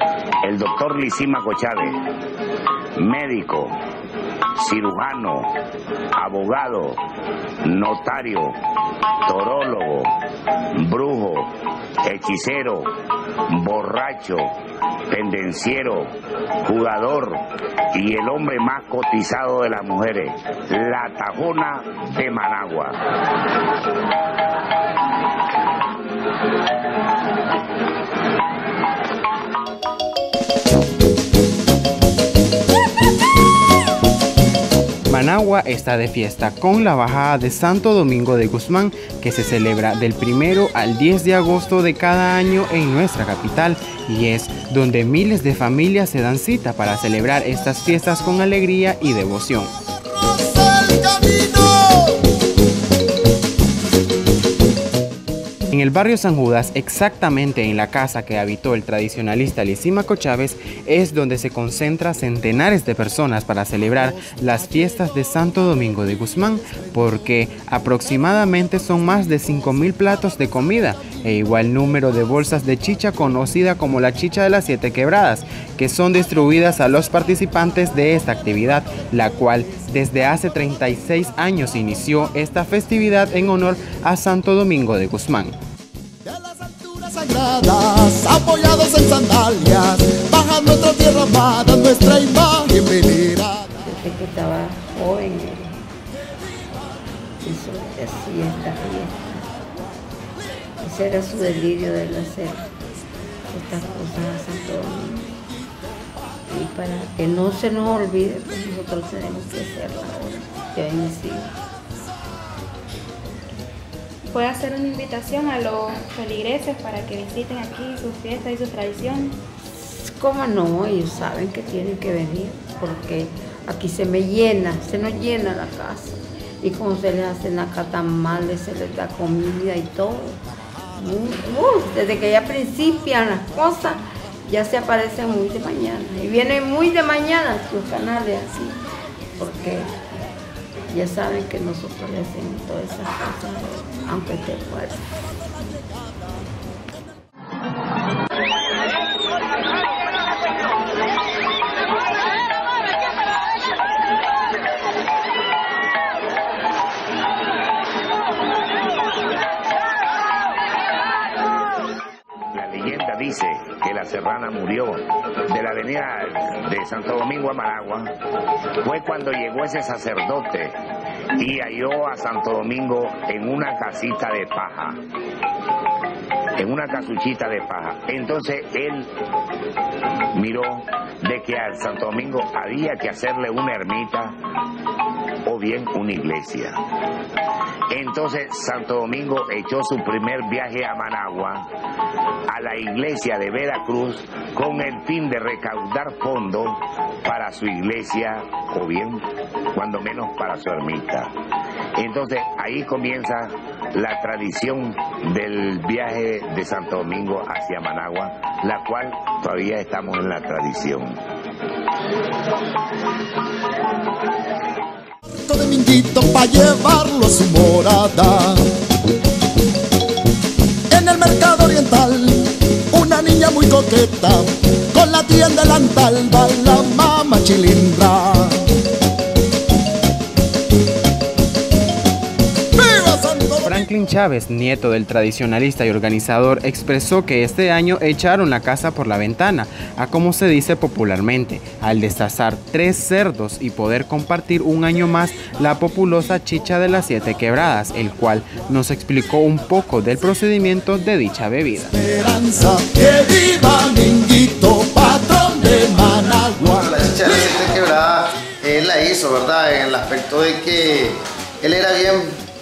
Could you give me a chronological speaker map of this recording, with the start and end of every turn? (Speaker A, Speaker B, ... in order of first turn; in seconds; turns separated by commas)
Speaker A: 0.4-2.0, Speaker A: 3.0-3.7, Speaker A: 4.6-5.5, Speaker A: 6.1-7.0, Speaker A: 7.6-8.5, Speaker A: 9.2-10.1, Speaker A: 10.8-11.5, Speaker A: 12.0-12.9, Speaker A: 13.5-14.5, Speaker A: 15.1-16.1, Speaker A: 16.6-23.0, Speaker B: 35.1-49.7, Speaker C: 50.0-52.3, Speaker B: 55.7-85.5, Speaker C: 86.2-93.7, Speaker D: 93.8-95.8, Speaker D: 97.4-99.5, Speaker D: 100.8-102.7, Speaker D: 103.5-105.5, Speaker D: 106.5-111.5, Speaker E: 114.3-119.3, Speaker D: 119.8-130.4, Speaker D: 130.9-138.8, Speaker D: 139.4-139.9, Speaker D: 140.9-145.1, Speaker A: 162.5-168.1, Speaker A: 168.8-170.8, Speaker A: 171.4-175.0, Speaker A: 176.6-179.1, Speaker A: 180.3-184.3, Speaker A: 185.4-186.8, Speaker A: 187.9-191.7, Speaker A: 192.5-201.3, Speaker A: 201.9-211.2, Speaker C: 215.4-218.7, Speaker C: 220.9-228.7, Speaker C: 232.7-233.9, Speaker B: 233.6-251.9, Speaker C: 251.9-257.6, Speaker F: 256.8-262.3